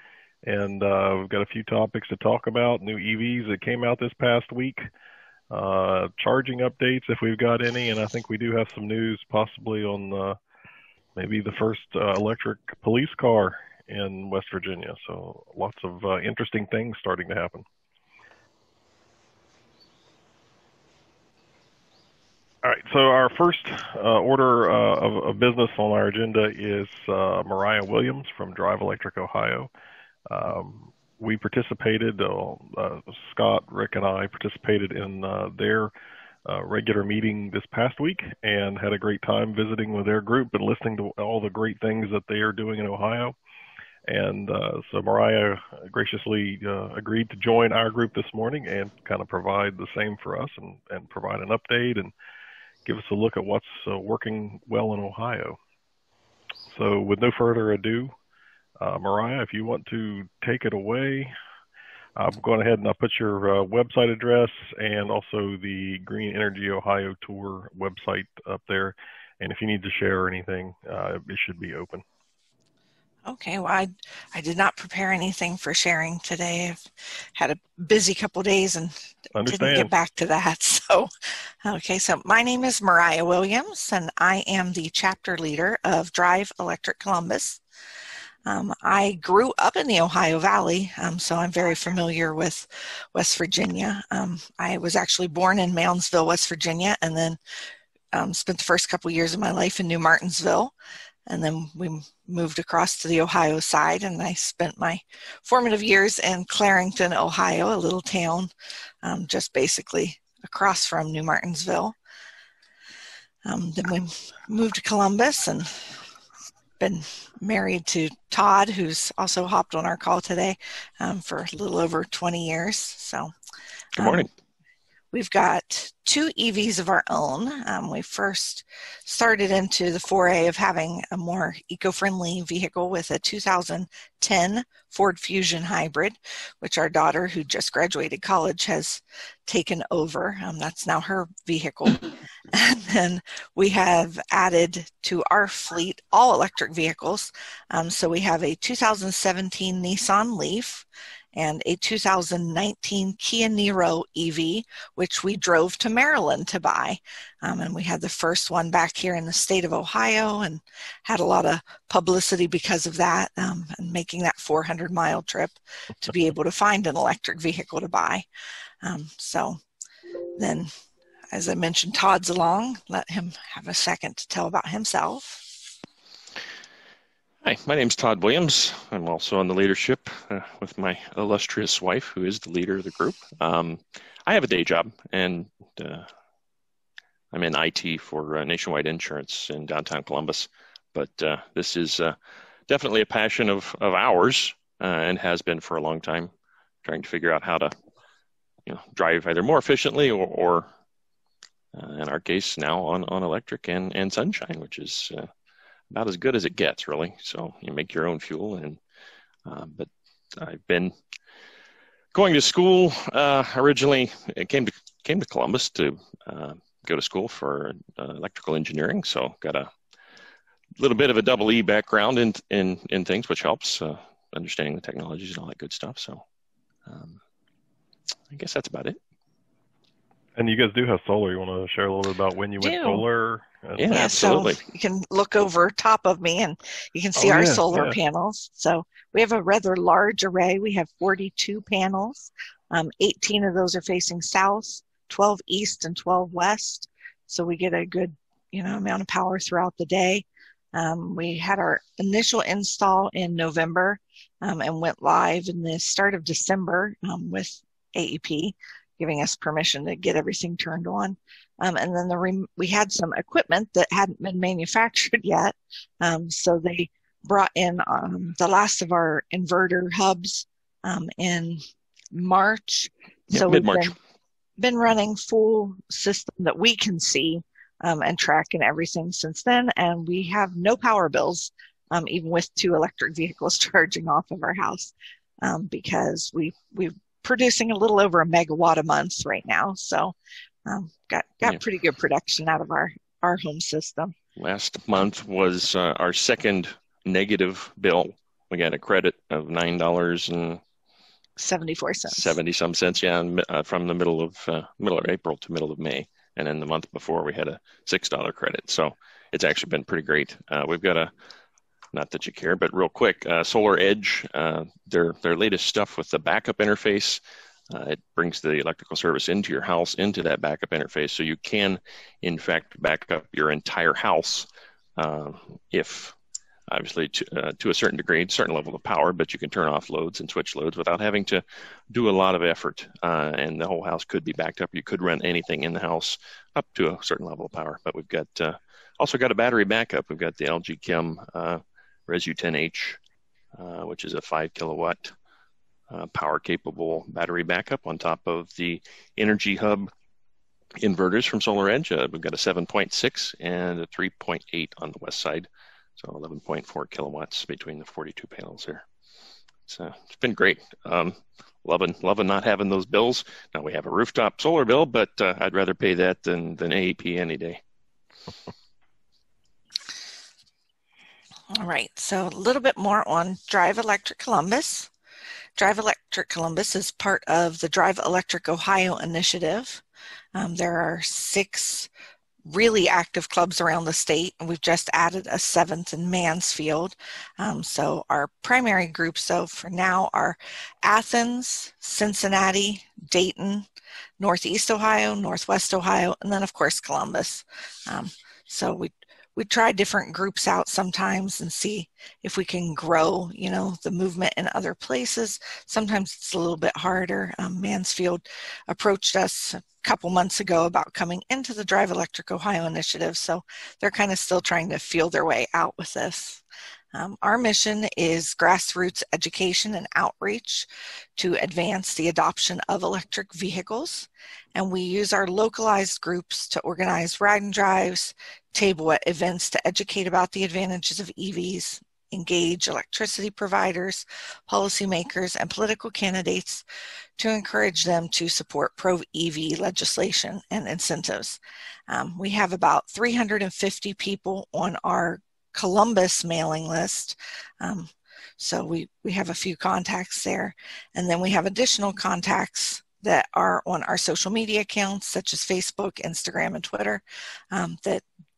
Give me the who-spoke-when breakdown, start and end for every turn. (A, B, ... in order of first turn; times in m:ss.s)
0:00.4-0:04.8 A
0:05.5-0:10.4 A
0:11.2-0:17.6 A
0:22.6-0:29.7 A
0:30.3-0:35.9 A
0:36.4-0:43.4 A
0:44.1-0:52.1 A
0:52.8-0:55.6 A
0:56.7-0:58.1 A
0:58.8-1:01.3 A
1:02.2-1:12.0 A
1:13.3-1:16.8 B
1:17.4-1:18.9 B
1:19.4-1:19.9 A
1:19.4-1:21.1 B
1:21.6-1:27.6 B
1:28.4-1:37.4 B
1:38.1-1:40.7 B
1:41.3-1:48.5 B
1:49.0-1:52.0 B
1:53.4-1:55.7 B
1:56.8-2:03.3 B
2:04.0-2:04.3 B
2:04.0-2:04.3 C
2:05.1-2:48.2 B
2:48.8-2:49.6 B
2:50.4-2:50.7 B
2:51.3-2:55.4 B
2:57.4-3:06.1 C
3:07.3-3:12.2 C
3:12.7-3:16.3 C
3:16.8-3:17.7 C
3:18.6-3:20.7 C
3:21.7-3:25.3 C
3:25.9-3:28.8 C
3:29.4-3:31.0 C
3:32.1-3:39.7 C
3:40.8-3:46.2 C
3:46.8-3:47.2 C
3:48.3-3:49.0 C
3:50.4-3:54.4 A
3:52.6-3:53.0 B
3:53.8-3:54.6 C
3:53.9-4:31.6 B
3:57.2-3:58.0 A
4:32.1-4:33.9 B
4:33.3-4:34.0 C
4:34.6-4:50.1 B
4:50.6-4:54.1 B
4:54.4-5:00.6 C
5:01.4-5:02.4 B
5:02.1-5:11.1 C
5:11.9-5:26.2 C
5:26.7-5:43.0 C
5:43.5-5:45.1 C
5:45.9-5:49.9 C
5:50.8-5:58.8 C
5:59.7-6:07.6 C
6:11.5-6:14.9 B
6:15.6-6:19.8 B
6:20.3-6:21.9 B
6:22.4-6:33.6 B
6:34.2-6:56.4 B
6:56.9-7:16.6 B
7:17.2-7:38.0 B